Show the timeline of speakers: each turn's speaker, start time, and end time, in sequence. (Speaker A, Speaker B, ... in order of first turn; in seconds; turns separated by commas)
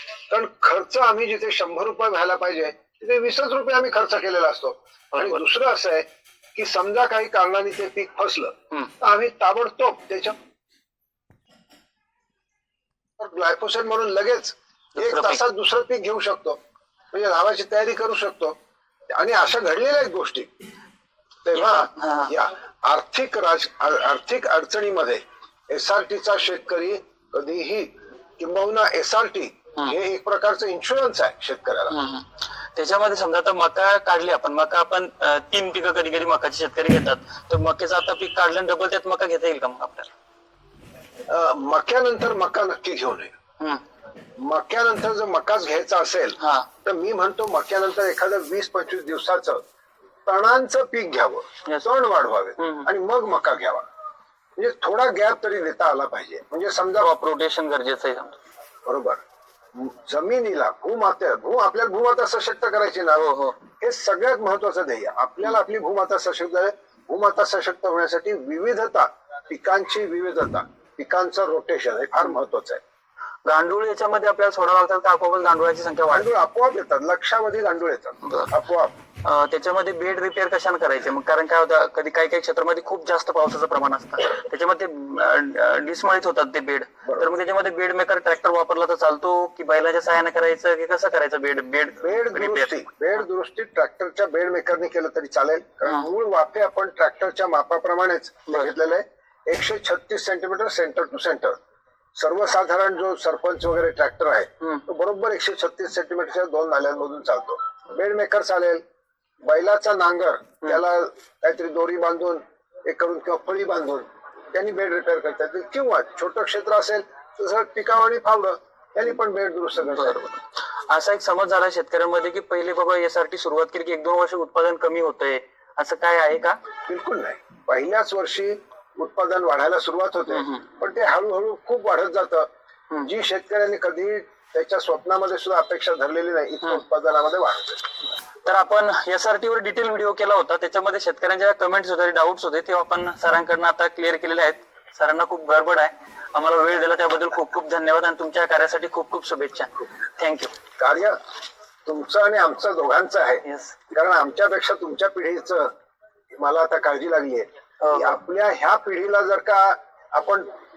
Speaker A: 0.3-10.3, Speaker B: 5.1-5.4, Speaker A: 13.2-16.6, Speaker B: 14.9-15.4, Speaker A: 17.1-18.5, Speaker A: 19.1-20.5, Speaker A: 21.4-31.9, Speaker B: 21.5-22.3, Speaker B: 31.9-40.1, Speaker A: 41.3-43.3, Speaker A: 44.4-49.6, Speaker B: 46.4-46.7, Speaker A: 50.2-53.8, Speaker B: 52.6-52.9, Speaker A: 54.6-57.1, Speaker B: 57.0-58.4, Speaker A: 58.9-59.2, Speaker A: 59.7-63.3, Speaker B: 63.1-63.6, Speaker A: 63.8-72.8, Speaker B: 73.5-76.3, Speaker A: 76.1-78.9, Speaker B: 78.2-78.6, Speaker B: 79.2-93.2, Speaker A: 92.0-101.6, Speaker A: 102.2-108.8, Speaker A: 109.4-120.2, Speaker B: 119.9-126.6, Speaker A: 126.8-132.5, Speaker B: 130.3-130.6, Speaker A: 133.0-137.9, Speaker B: 138.4-150.5, Speaker A: 150.8-151.2, Speaker A: 151.8-155.7, Speaker B: 153.4-153.8, Speaker A: 156.3-160.5, Speaker B: 157.8-158.2